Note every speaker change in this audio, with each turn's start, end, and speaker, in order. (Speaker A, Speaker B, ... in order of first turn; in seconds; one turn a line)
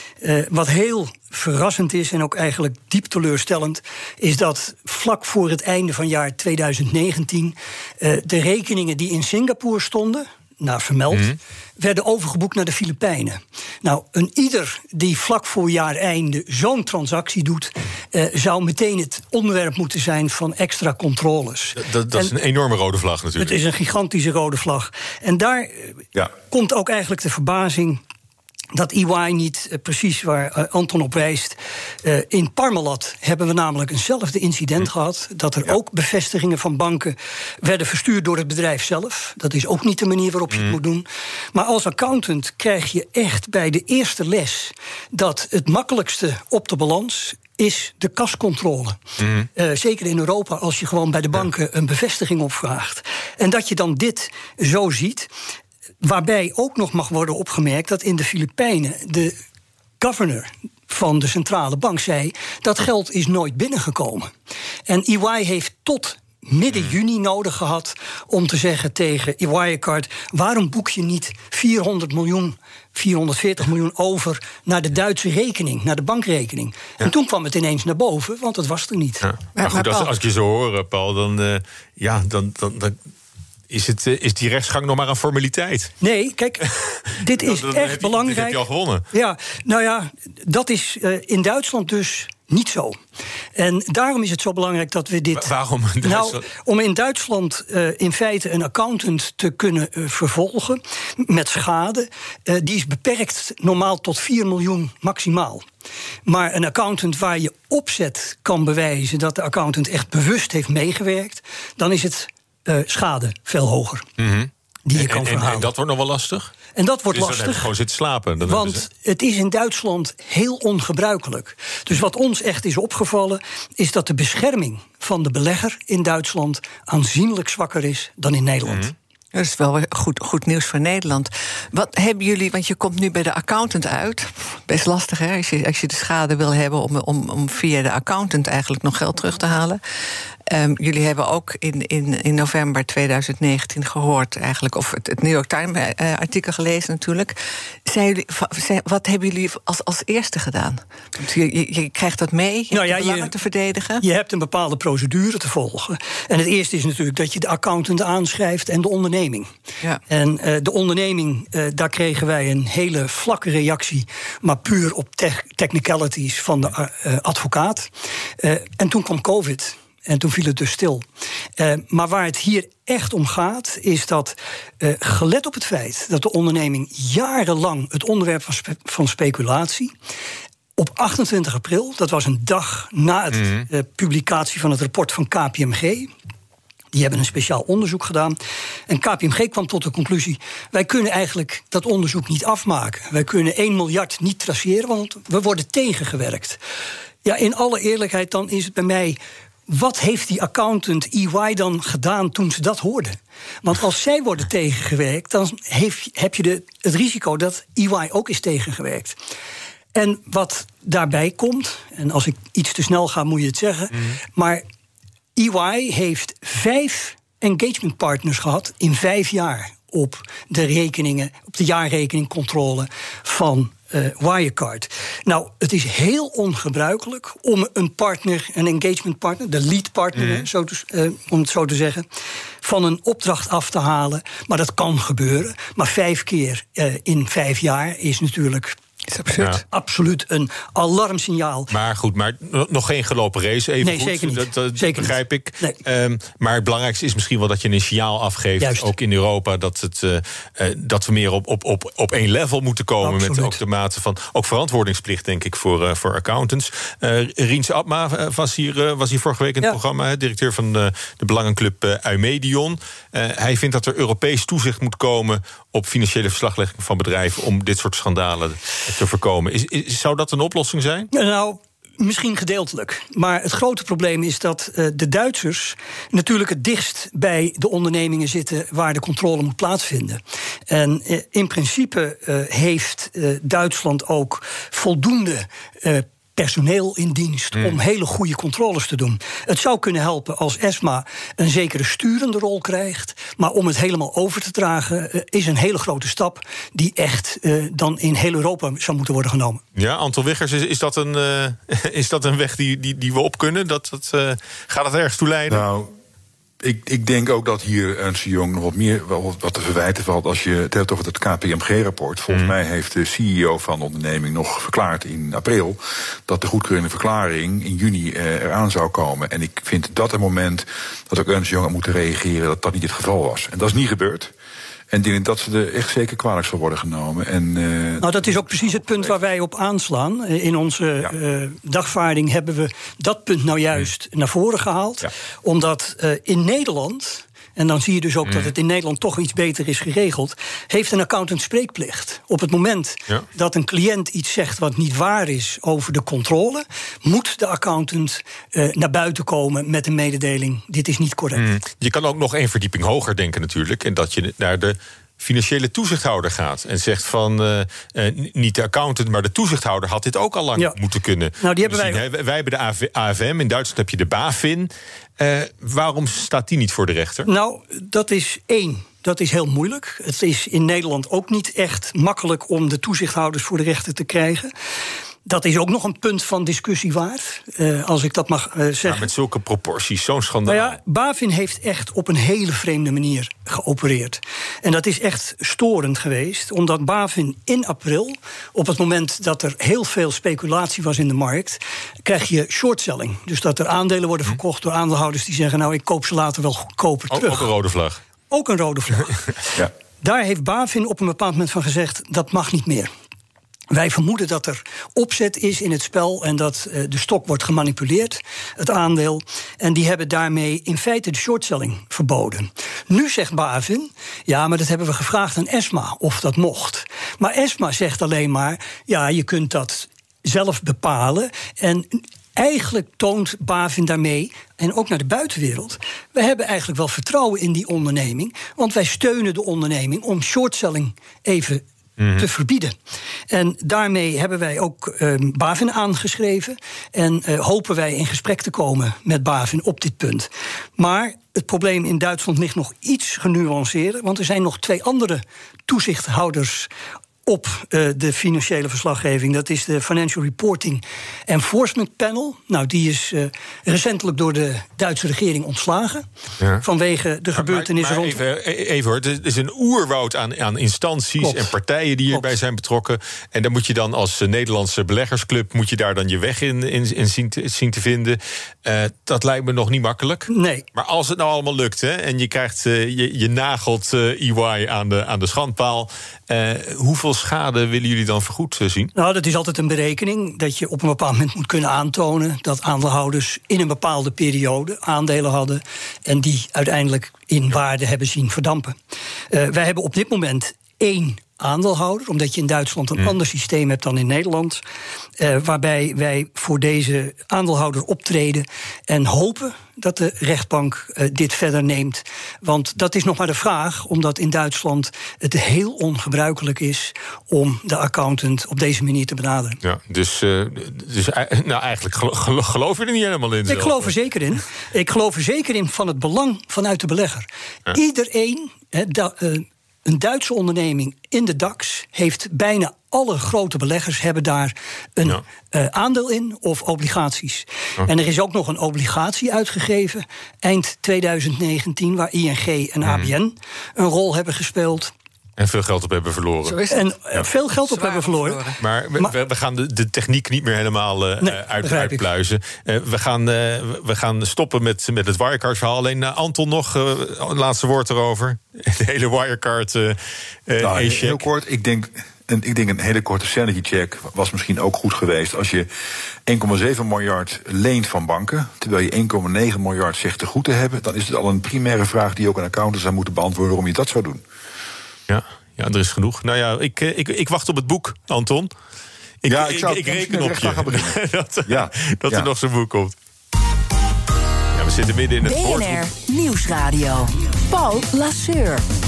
Speaker A: 0.2-22.3
Speaker B: 21.8-23.6
Speaker A: 23.4-28.0
Speaker A: 28.7-49.0
Speaker B: 49.2-49.5
Speaker A: 49.5-55.3
Speaker A: 56.0-59.4
Speaker A: 60.0-64.3
Speaker A: 64.9-79.2
Speaker B: 79.2-83.0
Speaker C: 79.6-80.1
Speaker B: 83.7-85.9
Speaker A: 86.0-86.7
Speaker B: 86.6-89.0
Speaker A: 87.2-88.6
Speaker A: 89.1-93.0
Speaker A: 93.5-105.6
Speaker B: 95.3-96.4
Speaker A: 106.2-114.0
Speaker B: 114.2-116.5
Speaker A: 114.9-115.7
Speaker A: 116.8-117.7
Speaker B: 117.1-118.8
Speaker A: 118.4-128.9
Speaker B: 128.6-128.9
Speaker C: 129.3-139.8
Speaker C: 140.5-147.3
Speaker C: 147.8-154.0
Speaker A: 152.7-153.3
Speaker A: 154.0-159.5
Speaker A: 160.1-171.1
Speaker A: 171.6-179.9
Speaker A: 180.8-186.1
Speaker B: 183.4-183.6
Speaker A: 186.9-188.4
Speaker A: 188.9-196.6
Speaker A: 197.2-209.2
Speaker A: 209.9-214.6
Speaker A: 215.3-232.1
Speaker B: 230.2-230.4
Speaker A: 232.6-238.8
Speaker C: 239.1-239.6
Speaker B: 239.4-239.6
Speaker A: 239.7-241.7
Speaker B: 241.7-271.1
Speaker A: 243.8-245.8
Speaker A: 248.6-248.9
Speaker A: 253.0-253.6
Speaker A: 271.1-299.6
Speaker B: 299.7-305.6
Speaker D: 305.5-305.9
Speaker D: 306.6-324.3
Speaker D: 324.9-328.4
Speaker A: 328.0-351.4
Speaker B: 351.3-367.3
Speaker A: 361.4-362.0
Speaker A: 367.2-374.5
Speaker A: 375.2-379.1
Speaker B: 378.8-380.8
Speaker A: 380.5-397.5
Speaker B: 397.1-398.0
Speaker A: 398.3-402.9
Speaker A: 403.7-431.6
Speaker B: 432.0-432.3
Speaker A: 432.1-432.7
Speaker A: 433.3-446.7
Speaker A: 447.2-456.1
Speaker A: 456.6-458.2
Speaker B: 457.3-478.9
Speaker A: 461.2-461.5
Speaker A: 470.3-470.6
Speaker A: 478.9-488.7
Speaker A: 489.3-494.6
Speaker A: 495.2-509.6
Speaker B: 509.6-513.9
Speaker A: 513.5-534.9
Speaker B: 532.8-533.1
Speaker B: 535.4-536.6
Speaker C: 536.4-536.9
Speaker A: 536.7-539.1
Speaker C: 537.6-538.6
Speaker B: 538.6-551.2
Speaker A: 541.2-542.0
Speaker D: 550.6-555.7
Speaker D: 556.2-564.2
Speaker B: 565.1-568.5
Speaker B: 569.2-572.9
Speaker D: 569.2-572.3
Speaker B: 574.5-575.9
Speaker E: 575.2-578.6